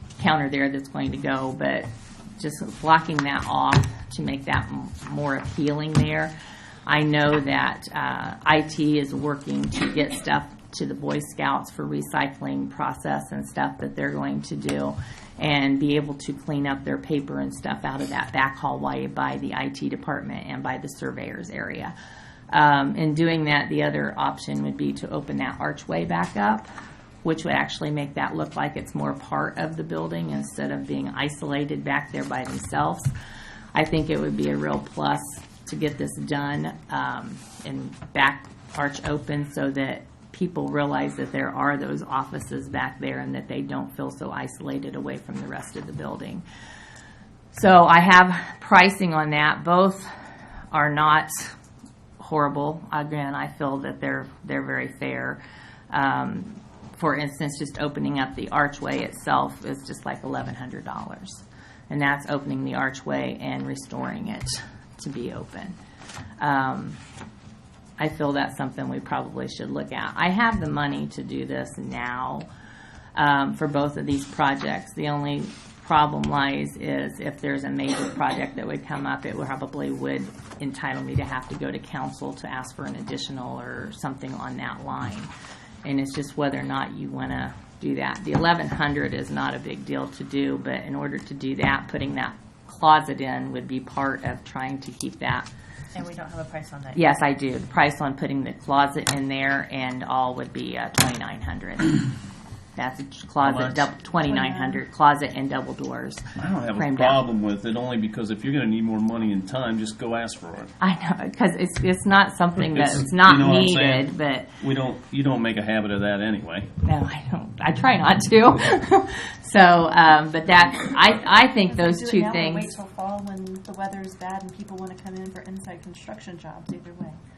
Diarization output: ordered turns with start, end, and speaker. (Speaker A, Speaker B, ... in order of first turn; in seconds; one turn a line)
Speaker A: 0.2-1.9
Speaker A: 2.4-6.3
Speaker A: 6.9-21.9
Speaker A: 22.5-26.7
Speaker A: 27.2-33.1
Speaker A: 33.7-46.5
Speaker A: 47.5-50.1
Speaker A: 50.7-51.5
Speaker A: 52.2-55.4
Speaker A: 55.9-65.8
Speaker A: 66.4-67.0
Speaker A: 68.0-72.5
Speaker A: 73.2-85.3
Speaker A: 85.8-95.5
Speaker B: 96.0-97.0
Speaker A: 97.0-102.0
Speaker A: 102.8-107.2
Speaker C: 103.4-103.9
Speaker B: 104.2-104.8
Speaker C: 106.3-110.7
Speaker A: 110.8-114.5
Speaker C: 112.7-116.7
Speaker A: 116.8-122.8
Speaker B: 121.6-127.2